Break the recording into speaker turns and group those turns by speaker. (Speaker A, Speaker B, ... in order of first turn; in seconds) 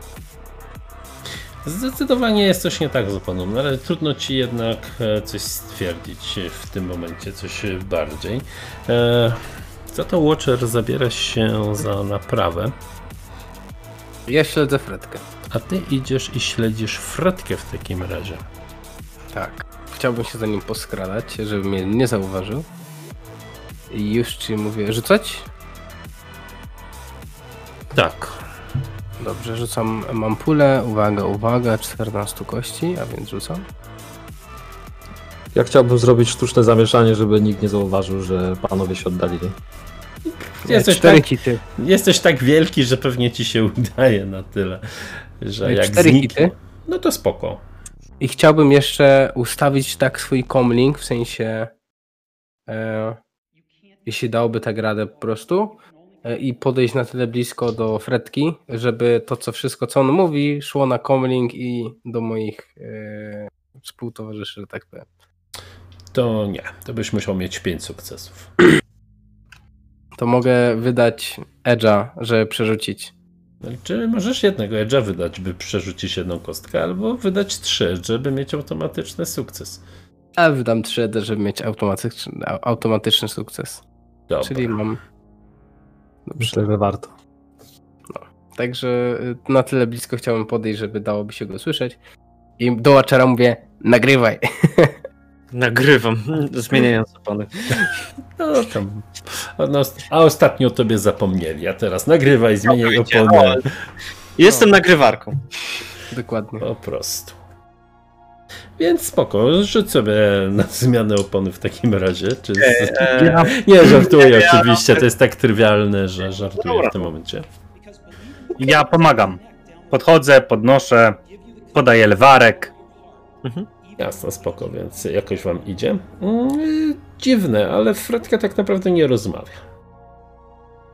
Speaker A: 1.6-12.7, 15.5-18.4, 27.9-28.4, 40.2-47.6, 66.1-68.5, 73.6-79.8, 84.3-84.7, 98.4-103.7, 106.6-107.3, 108.8-117.5, 124.0-129.6
Speaker B: 14.3-15.2, 19.3-22.6, 23.9-25.5, 29.2-33.6, 40.7-41.6, 45.6-46.5, 48.2-51.7, 52.7-53.2, 54.0-65.1, 70.2-73.1, 80.4-83.8, 84.4-85.0, 86.3-86.6, 88.2-92.0, 92.6-95.0, 106.1-106.6
Speaker C: 35.5-39.5, 86.4-87.1
Speaker D: 95.5-98.0, 102.7-103.7, 104.4-105.4, 112.6-115.0, 116.6-116.9, 123.4-123.7
Speaker E: 113.1-113.6, 118.6-121.2, 121.7-122.7